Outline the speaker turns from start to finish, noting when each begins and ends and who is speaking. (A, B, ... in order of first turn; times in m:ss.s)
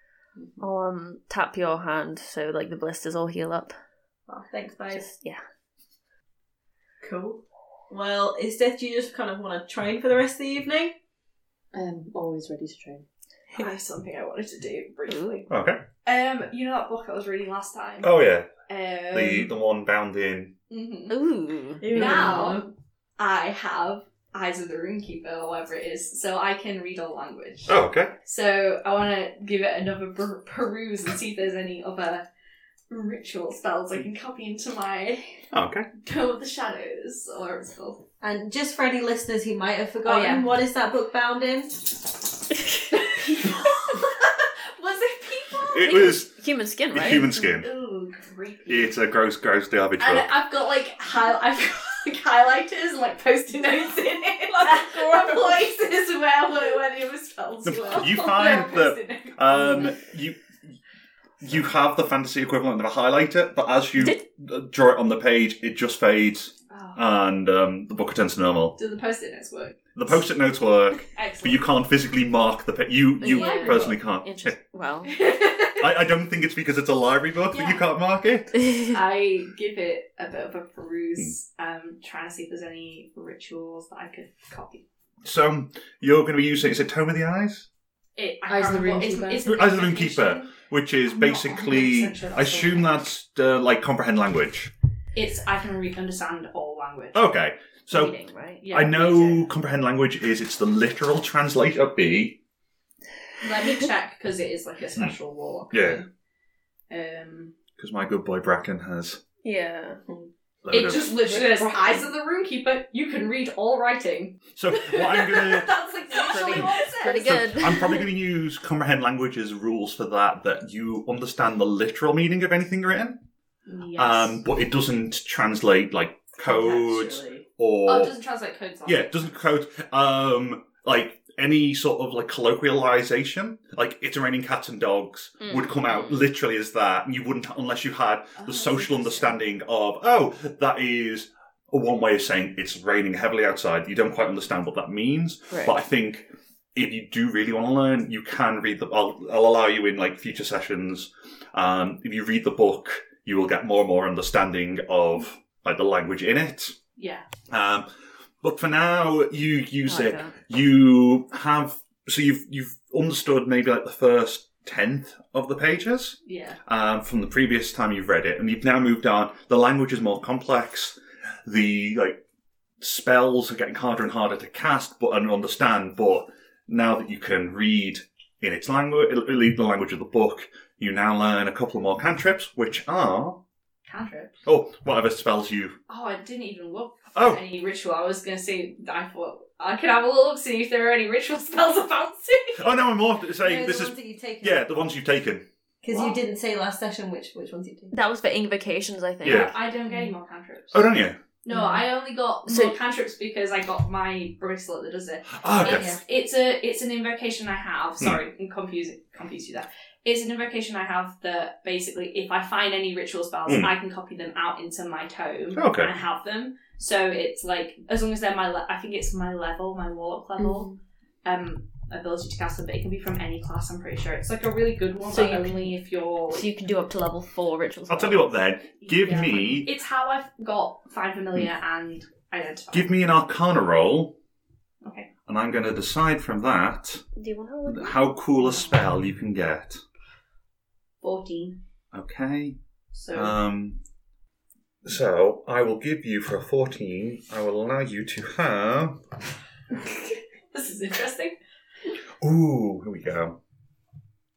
0:00.6-0:03.7 A
0:04.3-0:05.0 B
0:04.9-0:05.4 A
0:07.0-0:10.9 B
0:11.7-0:13.1 C
0:13.6-0:15.4 D
0:15.1-0:15.5 A
0:15.5-0:15.8 E
0:16.0-0:19.5 D
0:18.0-0:18.5 E
0:19.1-0:20.5 E
0:20.7-0:21.2 D
0:21.1-0:22.2 A
0:21.8-0:22.7 B
0:21.9-0:22.6 C
0:21.9-0:22.7 D
0:23.2-0:32.3 D
0:27.7-0:28.1 E
0:32.9-0:35.4 D
0:35.5-0:35.9 E
0:36.0-0:38.0 D
0:38.2-0:42.0 B
0:40.0-0:40.5 D
0:42.9-0:46.1 D
0:45.7-0:46.3 E
0:45.8-0:47.4 A
0:46.9-0:47.7 E
0:47.2-0:49.0 D
0:48.7-0:50.3 E
0:50.0-0:59.9 D
0:54.6-0:55.6 B
0:57.6-1:00.8 E
1:01.4-1:08.8 E
1:06.7-1:07.0 D
1:08.8-1:09.8 D
1:09.9-1:14.6 E
1:11.1-1:11.7 D
1:13.2-1:15.1 A
1:13.2-1:14.0 D
1:15.1-1:16.0 D
1:15.8-1:18.5 E
1:17.5-1:17.9 D
1:18.6-1:18.9 A
1:18.9-1:24.8 D
1:25.2-1:27.7 E
1:28.2-1:33.0 D
1:28.5-1:29.4 C
1:29.4-1:34.7 E
1:35.2-1:37.3 D
1:37.1-1:38.2 E
1:37.9-1:38.6 A
1:38.6-1:39.5 D
1:38.7-1:42.4 E
1:43.4-1:46.1 D
1:45.7-1:46.0 E
1:46.9-1:47.5 D
1:47.8-1:49.2 E
1:49.4-1:50.0 A
1:50.6-1:51.2 E
1:50.7-1:58.0 D
1:51.3-1:52.0 A
1:54.6-1:55.8 E
1:56.1-1:58.0 A
1:56.3-2:03.2 E
2:03.7-2:04.4 D
2:04.0-2:08.2 E
2:06.4-2:07.5 B
2:07.8-2:09.4 D
2:08.8-2:36.8 E
2:15.4-2:16.1 A
2:18.4-2:19.4 D
2:25.5-2:25.8 A
2:37.0-2:37.3 D
2:37.5-2:37.9 E
2:38.4-2:52.2 E
2:39.9-2:40.4 A
2:46.3-2:46.6 D
2:52.8-3:03.4 E
3:03.8-3:04.4 D
3:04.5-3:05.8 E
3:05.9-3:12.6 D
3:07.1-3:07.4 E
3:12.6-3:15.4 E
3:13.4-3:14.7 B
3:15.8-3:17.9 B
3:15.9-3:16.2 D
3:17.9-3:19.5 A
3:19.2-3:19.6 E
3:19.2-3:20.9 D
3:20.7-3:21.2 E
3:21.4-3:40.7 D
3:21.5-3:21.8 C
3:22.5-3:22.8 A
3:25.3-3:25.9 E
3:25.6-3:26.0 B
3:33.5-3:33.7 E
3:35.5-3:35.9 E
3:40.4-3:40.7 A
3:41.2-3:46.5 D
3:45.1-3:45.8 A
3:46.3-3:48.3 A
3:47.9-3:49.7 E
3:48.8-3:53.0 D
3:52.7-3:54.2 E
3:54.8-3:55.1 D
3:55.3-3:57.0 E
3:57.2-3:58.0 A
3:57.7-3:59.8 E
4:01.0-4:01.6 D
4:01.9-4:02.6 E
4:02.9-4:03.4 D
4:03.1-4:03.8 E
4:04.8-4:09.0 E
4:10.5-4:11.4 D
4:12.2-4:13.4 E